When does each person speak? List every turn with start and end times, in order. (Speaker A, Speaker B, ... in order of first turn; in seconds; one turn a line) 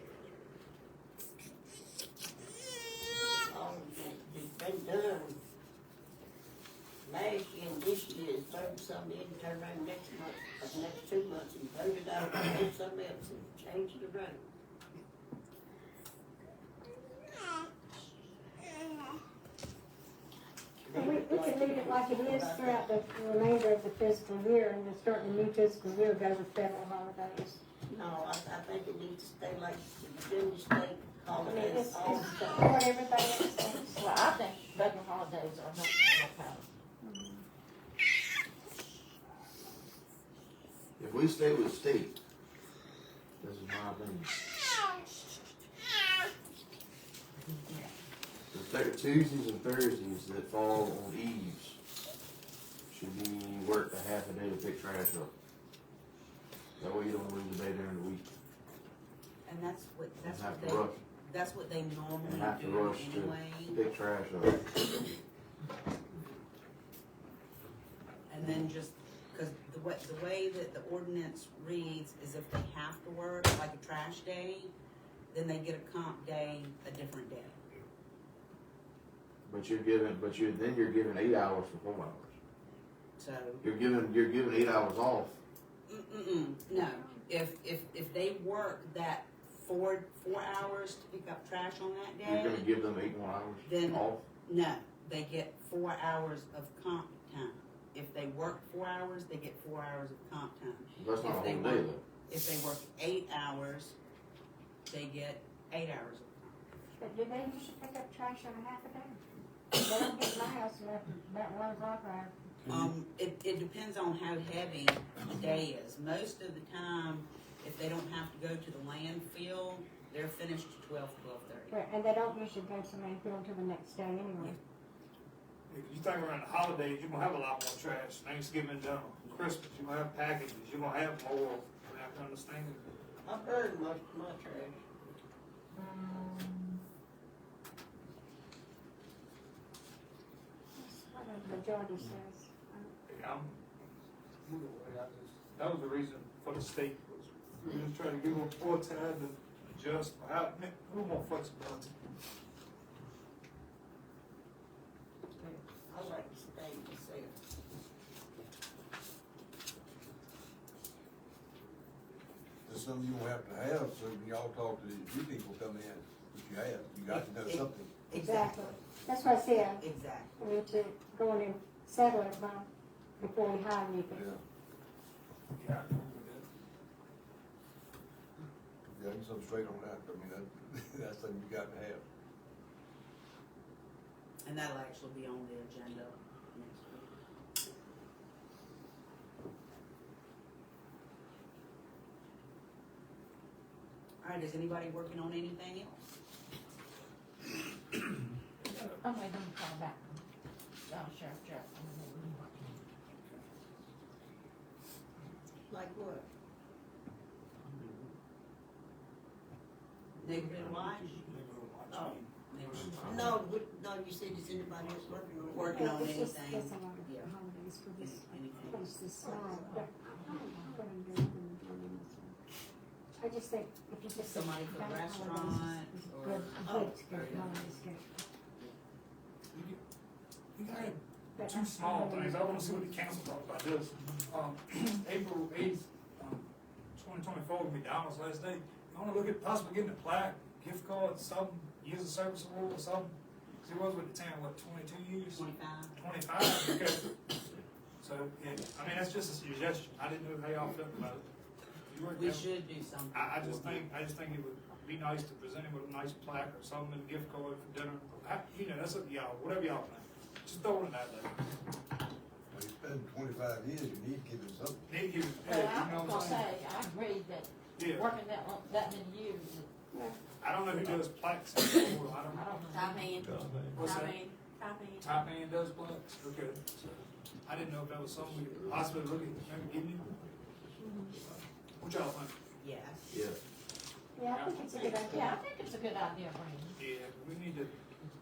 Speaker A: 3.5-5.4
Speaker A: 7.1-14.4
Speaker A: 20.8-22.9
Speaker B: 21.0-27.6
Speaker A: 27.9-32.8
Speaker B: 31.5-34.0
Speaker C: 33.9-36.7
Speaker B: 37.0-37.4
Speaker D: 41.0-42.2
Speaker D: 43.4-44.3
Speaker D: 48.5-51.8
Speaker D: 52.9-55.3
Speaker D: 56.8-58.3
Speaker E: 59.5-63.8
Speaker D: 60.2-61.0
Speaker D: 62.2-64.8
Speaker E: 68.3-74.7
Speaker E: 75.3-77.6
Speaker D: 79.5-82.3
Speaker E: 83.2-83.7
Speaker D: 83.6-85.4
Speaker E: 85.9-92.7
Speaker B: 86.8-87.2
Speaker D: 92.2-94.2
Speaker E: 93.6-104.0
Speaker D: 101.0-102.0
Speaker E: 104.9-106.3
Speaker B: 107.0-109.2
Speaker B: 109.8-112.3
Speaker E: 112.7-121.8
Speaker B: 121.7-124.6
Speaker F: 125.7-132.9
Speaker A: 133.2-134.8
Speaker B: 140.8-142.9
Speaker F: 143.1-143.6
Speaker F: 144.4-152.0
Speaker A: 155.6-157.4
Speaker G: 162.7-167.9
Speaker E: 167.1-168.8
Speaker B: 168.2-169.8
Speaker E: 169.4-170.4
Speaker B: 170.4-172.7
Speaker B: 173.2-174.3
Speaker G: 174.1-174.4
Speaker F: 175.6-176.5
Speaker G: 178.9-182.0
Speaker E: 184.4-187.2
Speaker E: 194.2-196.0
Speaker C: 198.8-200.2
Speaker C: 200.9-202.8
Speaker A: 205.7-206.3
Speaker E: 210.2-211.2
Speaker D: 210.4-211.1
Speaker F: 211.1-213.4
Speaker A: 211.9-212.2
Speaker E: 212.5-213.3
Speaker D: 212.8-213.3
Speaker A: 213.1-215.8
Speaker D: 214.4-215.6
Speaker E: 215.5-217.3
Speaker B: 215.7-222.3
Speaker E: 218.0-219.8
Speaker B: 223.2-228.1
Speaker E: 224.2-227.9
Speaker F: 229.5-229.8
Speaker F: 230.6-247.1
Speaker E: 230.7-230.9
Speaker B: 231.4-233.0
Speaker E: 245.4-246.0
Speaker F: 248.0-251.3
Speaker F: 251.9-252.5
Speaker E: 252.1-253.9
Speaker F: 253.1-261.5
Speaker G: 262.5-264.9
Speaker F: 264.9-266.5
Speaker C: 265.4-269.7
Speaker F: 267.8-268.1
Speaker B: 269.9-270.2
Speaker F: 270.4-272.5
Speaker C: 272.3-273.2
Speaker H: 272.7-275.2
Speaker F: 273.7-274.3
Speaker F: 275.0-280.1
Speaker B: 280.8-281.1
Speaker F: 281.8-282.4
Speaker E: 282.6-283.1
Speaker D: 283.1-283.4
Speaker B: 284.2-285.3
Speaker F: 284.3-285.3
Speaker C: 285.1-286.8
Speaker F: 286.8-287.8